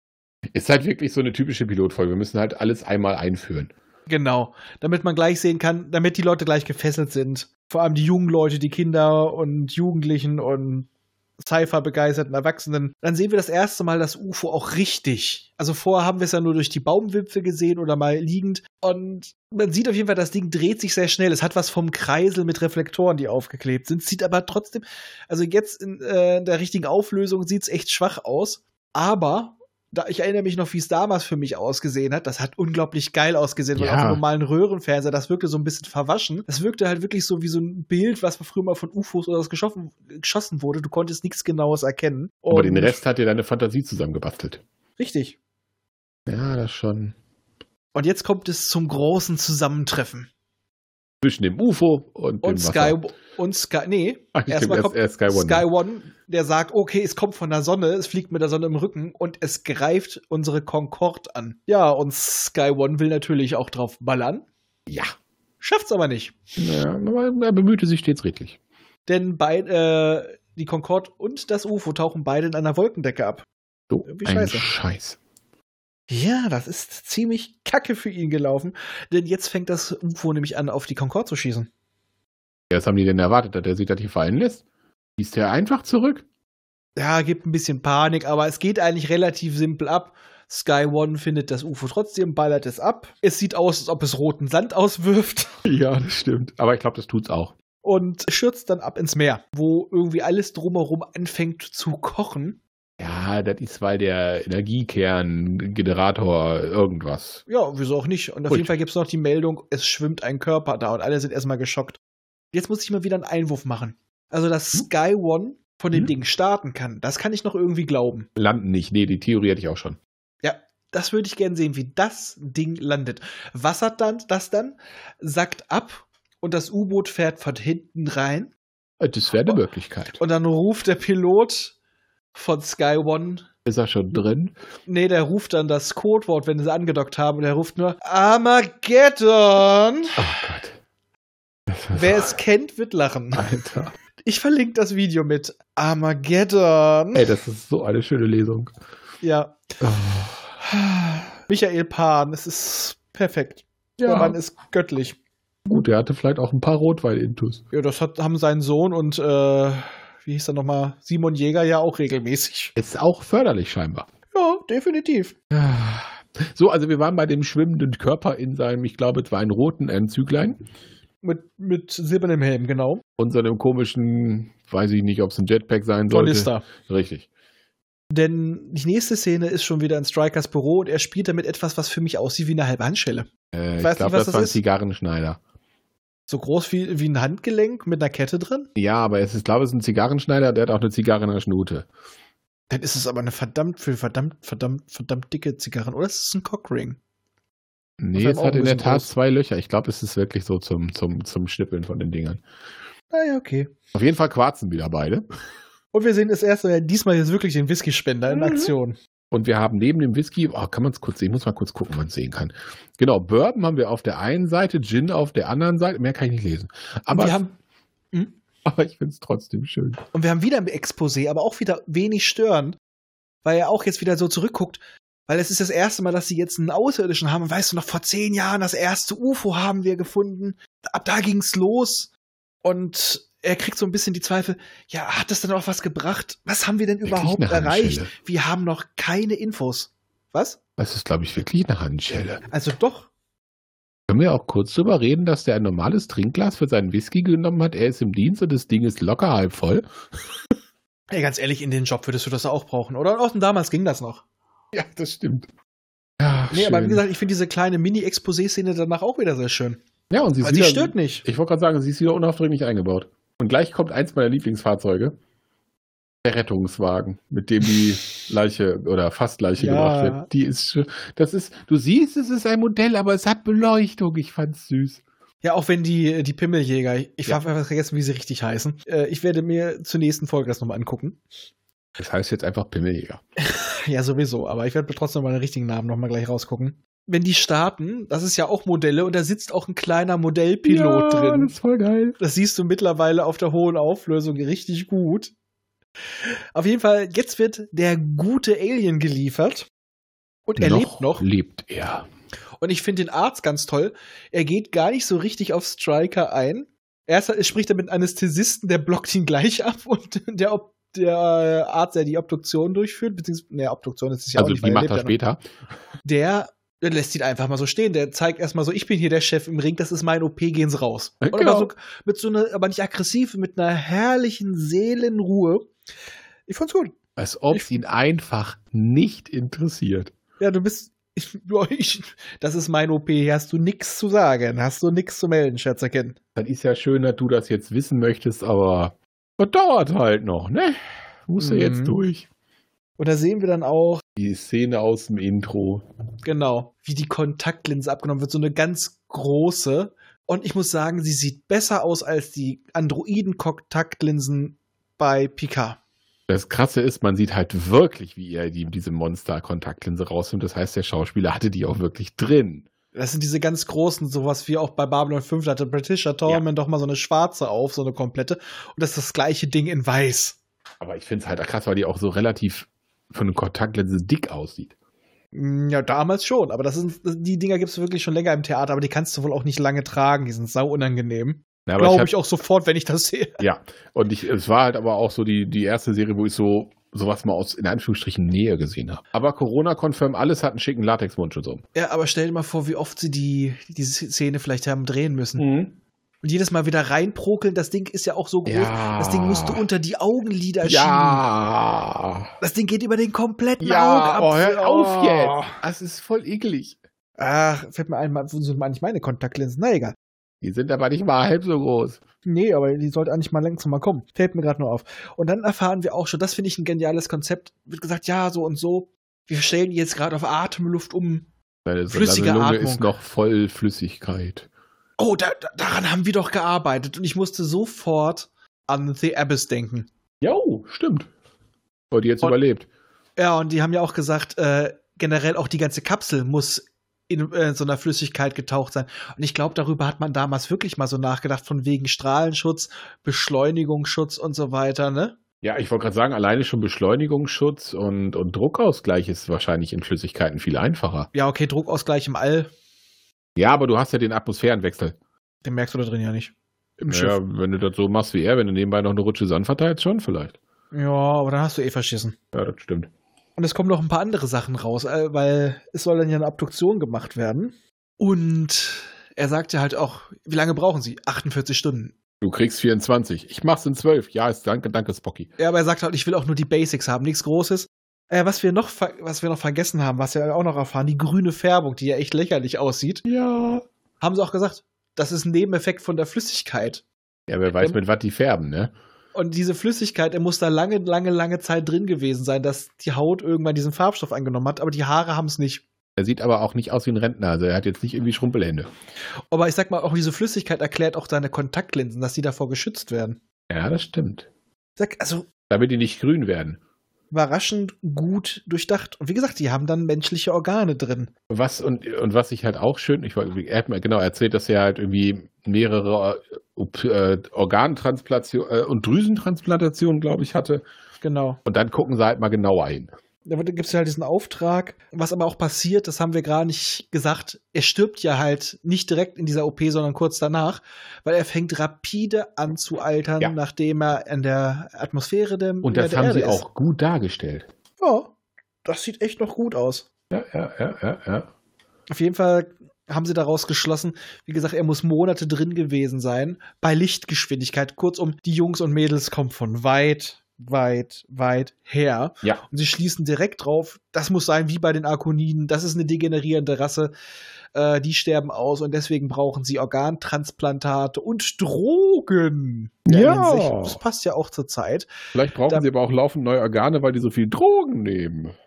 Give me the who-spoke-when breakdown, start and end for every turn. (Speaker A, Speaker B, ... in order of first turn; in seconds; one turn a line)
Speaker A: 0.5-3.7
Speaker B: 4.1-10.9
Speaker B: 11.4-43.0
Speaker A: 33.8-34.2
Speaker A: 42.5-44.6
Speaker B: 45.0-45.4
Speaker A: 46.3-47.1
Speaker B: 47.9-50.3
Speaker A: 51.2-53.0
Speaker B: 52.4-64.5
Speaker A: 54.4-55.7
Speaker A: 64.9-65.2
Speaker B: 65.6-66.4
Speaker A: 66.6-68.6
Speaker B: 69.1-73.5
Speaker A: 73.9-75.2
Speaker B: 74.1-74.7
Speaker B: 76.1-81.7
Speaker A: 82.7-84.6
Speaker A: 85.2-86.2
Speaker B: 87.0-95.6
Speaker A: 95.7-97.5
Speaker B: 97.8-102.6
Speaker A: 103.0-107.4
Speaker B: 107.5-112.0
Speaker A: 108.5-108.7
Speaker B: 112.5-118.3
Speaker A: 118.4-120.0
Speaker B: 120.4-128.5
Speaker A: 129.0-130.2
Speaker B: 130.2-131.8
Speaker B: 132.3-133.5
Speaker A: 133.7-134.6
Speaker B: 134.9-140.2
Speaker A: 140.2-140.8
Speaker A: 141.7-142.3
Speaker B: 141.9-143.5
Speaker A: 143.3-143.9
Speaker B: 144.2-147.3
Speaker A: 147.1-148.7
Speaker B: 149.2-149.6
Speaker A: 149.8-150.4
Speaker B: 150.6-155.2
Speaker A: 154.0-154.4
Speaker A: 155.7-157.6
Speaker B: 157.7-162.7
Speaker A: 162.8-164.1
Speaker B: 164.3-165.3
Speaker A: 165.5-170.6
Speaker B: 171.2-173.0
Speaker A: 173.2-177.3
Speaker B: 176.1-176.7
Speaker B: 178.1-184.6
Speaker A: 183.5-185.4
Speaker B: 186.3-188.7
Speaker A: 188.8-191.9
Speaker B: 192.7-197.0
Speaker A: 198.0-202.4
Speaker B: 198.2-199.1
Speaker B: 203.1-203.7
Speaker A: 203.9-205.3
Speaker B: 205.9-209.0
Speaker A: 208.3-208.7
Speaker A: 209.3-217.4
Speaker B: 217.1-217.6
Speaker A: 218.7-220.0
Speaker B: 220.1-222.8
Speaker B: 223.4-232.1
Speaker B: 232.6-240.6
Speaker A: 237.0-238.1
Speaker A: 240.8-242.4
Speaker B: 242.5-243.1
Speaker A: 244.1-249.9
Speaker B: 251.1-254.2
Speaker A: 254.7-255.5
Speaker A: 256.2-257.0
Speaker B: 256.5-259.8
Speaker A: 260.1-265.2
Speaker B: 260.4-261.2
Speaker A: 266.2-275.0
Speaker B: 269.6-270.3
Speaker B: 275.4-281.2
Speaker A: 282.0-283.2
Speaker B: 283.4-291.6
Speaker A: 290.6-292.2
Speaker B: 292.2-295.3
Speaker B: 296.5-299.7
Speaker B: 300.5-301.2
Speaker A: 300.6-302.1
Speaker B: 302.6-315.1
Speaker A: 314.4-315.4
Speaker B: 316.0-325.7
Speaker A: 321.2-321.7
Speaker B: 326.5-326.9
Speaker A: 327.2-330.1
Speaker B: 330.4-336.2
Speaker A: 336.4-342.3
Speaker B: 341.4-342.0
Speaker B: 343.0-344.0
Speaker A: 344.2-345.9
Speaker B: 346.2-355.8
Speaker A: 356.3-362.7
Speaker B: 362.9-370.4
Speaker A: 370.8-374.7
Speaker B: 375.3-383.4
Speaker A: 381.7-382.1
Speaker A: 383.4-391.6
Speaker B: 391.8-395.4
Speaker A: 395.4-395.8
Speaker B: 396.2-401.2
Speaker A: 398.5-399.6
Speaker A: 400.6-402.3
Speaker B: 402.4-405.6
Speaker A: 403.6-406.8
Speaker B: 407.2-409.9
Speaker A: 410.4-412.0
Speaker B: 412.2-421.3
Speaker A: 421.7-424.5
Speaker B: 421.9-422.9
Speaker B: 425.0-429.9
Speaker A: 430.2-431.1
Speaker A: 431.9-432.7
Speaker B: 433.2-445.2
Speaker A: 445.4-451.1
Speaker B: 451.1-452.5
Speaker A: 453.4-455.0
Speaker B: 455.4-457.2
Speaker A: 456.9-460.4
Speaker B: 460.7-462.1
Speaker A: 462.3-462.9
Speaker B: 463.4-471.9
Speaker A: 472.2-475.3
Speaker B: 475.4-483.1
Speaker A: 483.1-483.6
Speaker B: 484.0-486.8
Speaker A: 487.3-488.7
Speaker B: 489.1-495.6
Speaker A: 496.0-498.7
Speaker B: 499.3-503.2
Speaker A: 503.5-504.3
Speaker B: 504.8-505.3
Speaker A: 505.5-506.6
Speaker B: 507.1-511.1
Speaker A: 511.3-520.6
Speaker B: 521.0-521.4
Speaker A: 521.5-522.9
Speaker B: 523.3-536.4
Speaker A: 535.6-537.5
Speaker B: 537.8-538.1
Speaker B: 538.6-539.9
Speaker A: 540.1-541.3
Speaker B: 541.9-556.9
Speaker B: 557.5-564.9
Speaker A: 562.9-563.8
Speaker A: 565.1-568.4